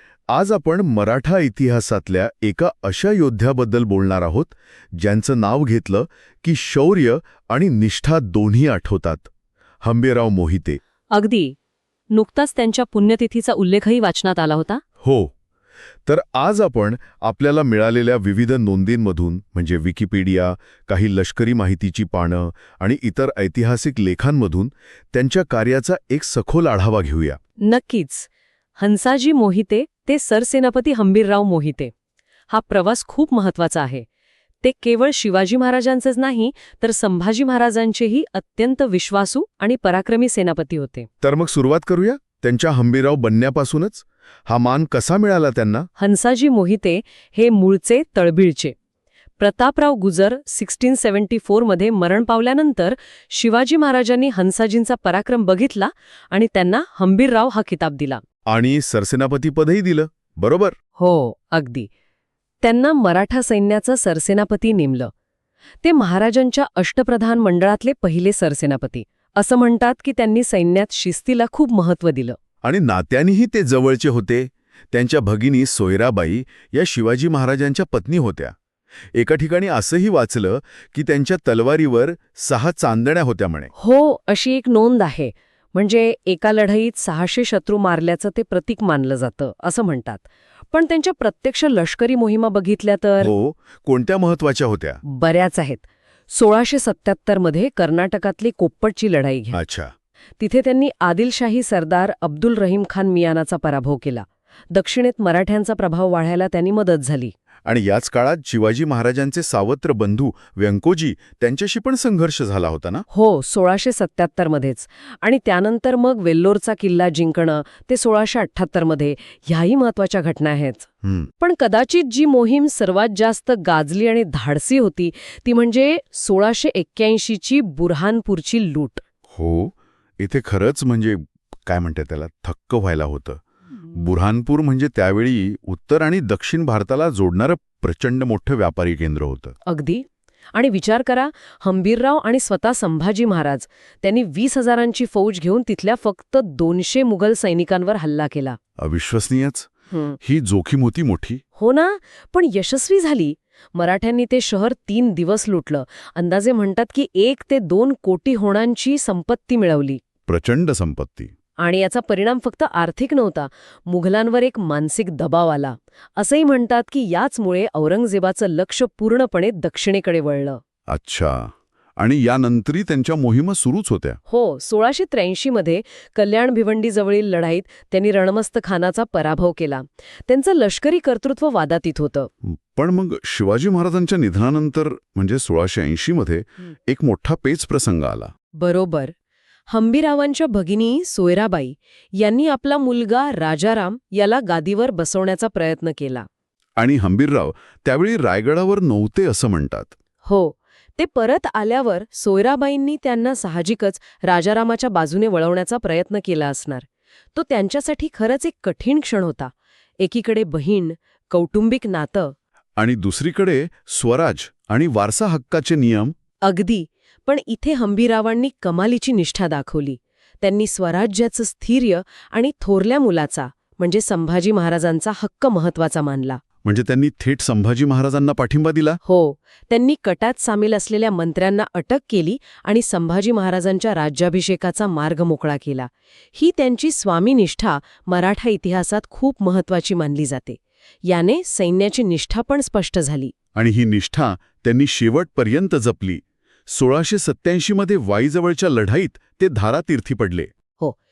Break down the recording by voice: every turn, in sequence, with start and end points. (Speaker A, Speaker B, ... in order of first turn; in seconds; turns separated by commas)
Speaker A: 0.3-9.3, Speaker A: 9.8-10.8, Speaker B: 11.1-11.6, Speaker B: 12.1-14.8, Speaker A: 15.0-15.3, Speaker A: 16.1-27.4, Speaker B: 27.6-31.9, Speaker B: 32.5-34.0, Speaker B: 34.6-41.1, Speaker A: 41.2-45.9, Speaker B: 46.0-48.7, Speaker B: 49.4-58.2, Speaker A: 58.5-60.8, Speaker B: 61.0-61.9, Speaker B: 62.6-65.1, Speaker B: 65.8-72.4, Speaker A: 72.6-78.5, Speaker A: 79.1-83.7, Speaker B: 83.7-93.3, Speaker A: 93.2-95.0, Speaker B: 95.0-99.5, Speaker A: 99.5-99.9, Speaker B: 100.4-107.3, Speaker A: 107.7-113.0, Speaker B: 113.1-120.9, Speaker A: 121.0-121.3, Speaker B: 121.4-129.0, Speaker A: 129.3-139.6, Speaker B: 139.7-148.6, Speaker A: 148.8-151.4, Speaker B: 149.9-150.2, Speaker B: 151.6-160.0, Speaker A: 160.3-161.3, Speaker B: 161.6-170.6, Speaker A: 170.9-174.2, Speaker B: 174.3-182.3, Speaker A: 182.4-188.3, Speaker B: 188.5-189.1, Speaker B: 189.7-196.3, Speaker A: 196.8-199.9, Speaker B: 200.2-212.3, Speaker A: 212.8-216.1, Speaker B: 216.4-226.4, Speaker A: 226.6-229.0, Speaker B: 229.0-243.3, Speaker A: 243.5-250.5